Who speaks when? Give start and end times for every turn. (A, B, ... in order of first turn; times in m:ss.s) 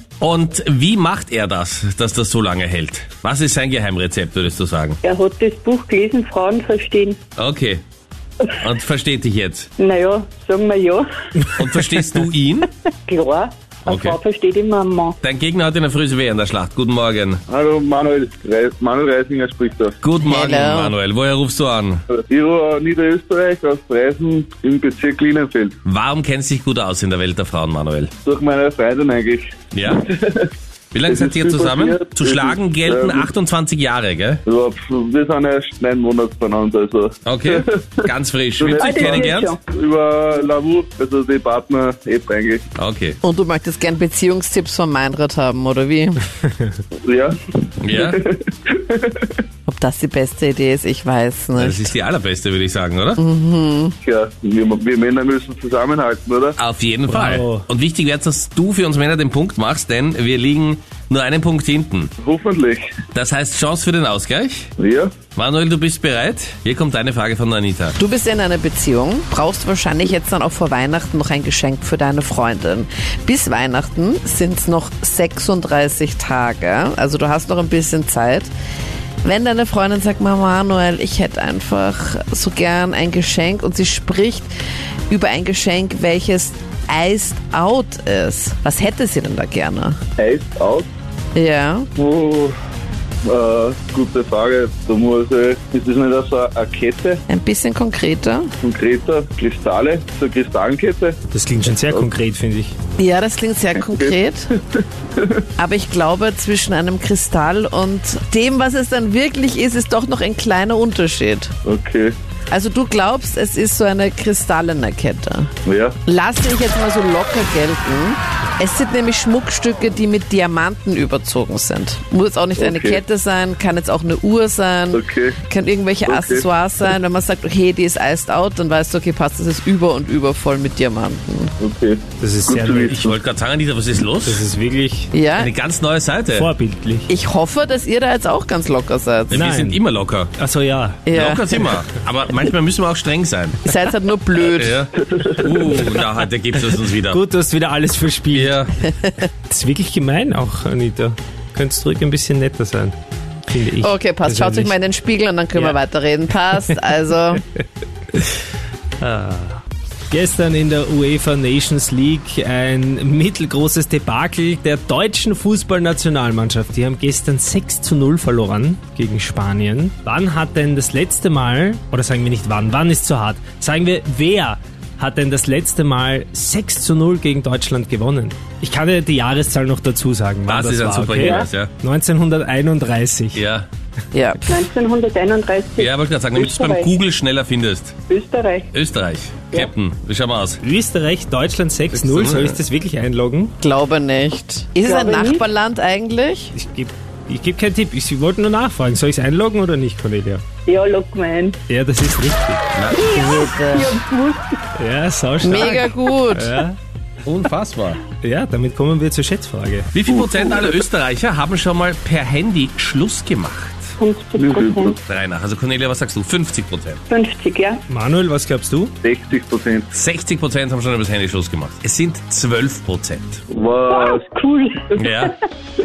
0:00.2-0:05.0 A
0:05.0-0:07.2 B
0:07.4-0:07.8 A
0:08.6-0:09.7 A
0:09.8-0:11.1 B
0:11.5-0:12.7 A
0:13.1-0:15.2 B
0:13.8-0:14.2 A
0:15.2-0:17.4 A
0:17.5-0:20.0 C
0:20.0-0:22.0 A
0:20.2-0:21.0 D
0:22.3-0:25.7 C
0:25.8-0:28.1 A
0:28.2-0:30.5 C
0:29.7-0:30.1 A
0:30.9-0:34.4 A
0:31.0-0:33.3 C
0:34.4-0:42.6 C
0:37.2-0:39.5 A
0:38.8-0:39.6 B
0:42.8-0:43.2 A
0:43.2-0:46.2 D
0:47.0-0:49.3 C
0:47.8-0:48.2 A
0:49.7-0:51.9 D
0:51.5-0:53.2 A
0:53.2-0:53.9 D
0:54.0-0:56.6 C
0:56.6-1:02.1 A
0:57.1-0:57.6 E
1:02.2-1:03.0 C
1:03.1-1:04.7 A
1:04.8-1:05.1 C
1:05.3-1:07.9 A
1:08.0-1:18.5 D
1:19.2-1:24.5 D
1:25.1-1:30.0 D
1:30.2-1:30.9 C
1:31.3-1:31.9 D
1:32.0-1:32.6 C
1:33.2-1:37.2 C
1:37.3-1:38.5 D
1:38.6-1:41.2 C
1:41.3-1:42.7 E
1:43.0-1:44.5 D
1:43.8-1:44.1 C
1:44.7-1:45.4 C
1:45.6-1:51.5 D
1:51.6-1:52.1 C
1:52.5-1:55.5 D
1:55.6-1:56.0 C
1:56.0-2:11.5 D
2:02.6-2:03.0 C
2:04.9-2:05.4 C
2:06.0-2:06.5 C
2:11.6-2:13.2 C
2:12.2-2:13.1 E
2:13.0-2:14.4 A
2:14.2-2:15.1 E
2:15.1-2:15.5 D
2:15.4-2:16.5 A
2:16.3-2:17.1 E
2:17.1-2:19.4 D
2:19.3-2:20.3 A
2:19.3-2:19.8 E
2:20.4-2:21.0 E
2:21.0-2:21.7 D
2:21.1-2:23.8 A
2:23.6-2:24.8 D
2:24.4-2:27.2 A
2:25.0-2:25.9 C
2:26.7-2:28.6 E
2:28.3-2:28.7 A
2:29.5-2:33.0 E
2:33.5-2:34.7 E
2:33.8-2:37.4 D
2:39.0-3:03.4 E
3:00.5-3:01.7 A
3:01.2-3:01.4 B
3:03.3-3:03.7 A
3:04.1-3:04.6 D
3:04.5-3:06.9 B
3:05.8-3:08.0 A
3:08.1-3:08.7 B
3:08.7-3:10.6 A
3:10.6-3:13.5 E
3:11.9-3:12.6 A
3:13.6-3:16.5 D
3:14.9-3:15.4 B
3:16.5-3:20.4 E
3:20.6-3:21.6 B
3:21.7-3:22.7 E
3:22.7-3:23.1 A
3:22.9-3:24.5 B
3:23.1-3:24.0 D
3:24.8-3:26.8 E
3:25.4-3:26.6 D
3:27.2-3:28.0 A
3:28.2-3:29.9 E
3:29.9-3:33.9 A
3:30.1-3:30.8 C
3:34.0-3:35.0 B
3:34.4-3:35.0 C
3:35.0-3:37.0 A
3:37.1-3:37.8 B
3:37.9-3:38.9 E
3:39.0-3:39.9 C
3:39.9-3:43.4 A
3:43.5-3:44.3 C
3:43.9-3:44.9 B
3:45.0-3:45.3 A